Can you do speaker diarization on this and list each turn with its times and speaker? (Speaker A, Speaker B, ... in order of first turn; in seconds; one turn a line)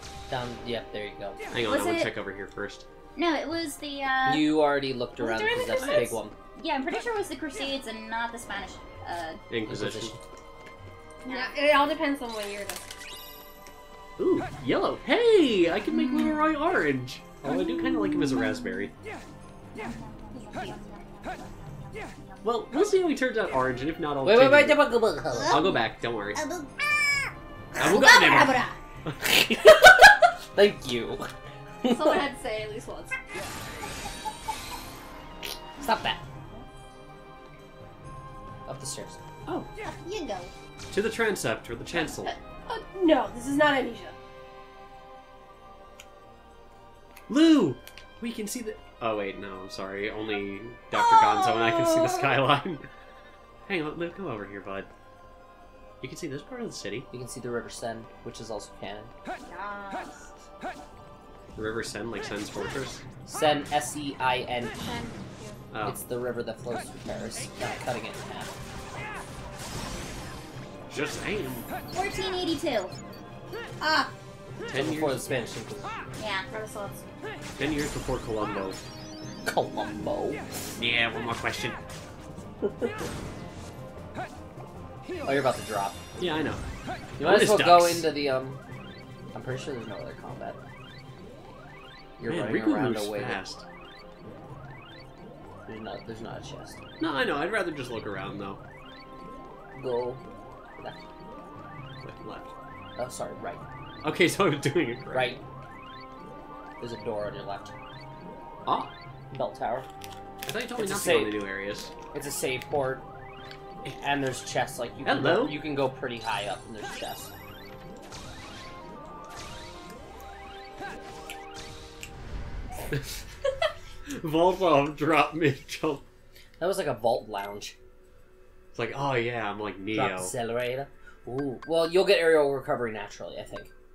Speaker A: 0.3-1.4
Speaker B: 1.5-2.9
Speaker C: 1.6-2.1
Speaker C: 3.1-4.5
Speaker A: 4.2-6.3
Speaker D: 5.2-5.6
Speaker B: 5.8-6.2
Speaker C: 6.5-9.4
Speaker B: 9.5-10.2
Speaker A: 9.7-10.2
Speaker C: 11.2-11.6
Speaker D: 11.4-12.8
Speaker B: 14.2-18.9
Speaker C: 15.9-16.4
Speaker C: 19.8-20.6
Speaker D: 20.3-20.8
Speaker B: 22.4-24.9
Speaker A: 24.2-25.7
Speaker B: 25.5-26.4
Speaker D: 26.4-26.7
Speaker B: 27.8-28.6
Speaker D: 27.8-28.8
Speaker A: 29.2-31.3
Speaker A: 31.8-32.3
Speaker D: 31.9-33.1
Speaker A: 35.8-36.2
Speaker A: 38.7-39.2
Speaker D: 39.8-40.5
Speaker B: 40.9-42.3
Speaker D: 42.4-44.1
Speaker B: 47.3-52.9
Speaker D: 50.9-52.0
Speaker B: 53.7-54.9
Speaker B: 56.0-57.1
Speaker A: 57.1-59.1
Speaker D: 59.5-60.2
Speaker B: 61.5-63.0
Speaker A: 63.2-65.1
Speaker D: 64.8-65.6
Speaker B: 65.7-66.0
Speaker A: 65.8-68.5
Speaker B: 70.9-71.7
Speaker C: 71.9-73.0
Speaker D: 73.8-74.1
Speaker B: 74.7-75.3
Speaker A: 74.7-76.1
Speaker C: 76.2-76.5
Speaker D: 76.5-77.0
Speaker B: 77.6-78.8
Speaker A: 79.4-80.4
Speaker B: 80.8-81.8
Speaker A: 85.2-86.0
Speaker B: 86.2-86.6
Speaker B: 87.2-88.1
Speaker A: 87.2-88.6
Speaker A: 89.3-90.6
Speaker A: 92.2-93.4
Speaker B: 92.2-93.6
Speaker A: 95.7-96.8
Speaker B: 97.0-98.6
Speaker A: 99.8-100.2
Speaker B: 102.0-102.5
Speaker A: 103.0-103.6
Speaker B: 104.0-105.4
Speaker A: 105.1-105.4
Speaker A: 106.8-107.7
Speaker B: 108.7-108.9
Speaker A: 109.3-109.9
Speaker B: 110.5-111.9
Speaker A: 110.8-111.4
Speaker A: 112.1-113.1
Speaker A: 114.0-117.3
Speaker B: 115.0-115.6
Speaker B: 124.1-126.0
Speaker A: 126.6-127.7
Speaker B: 128.7-130.3
Speaker A: 129.9-133.7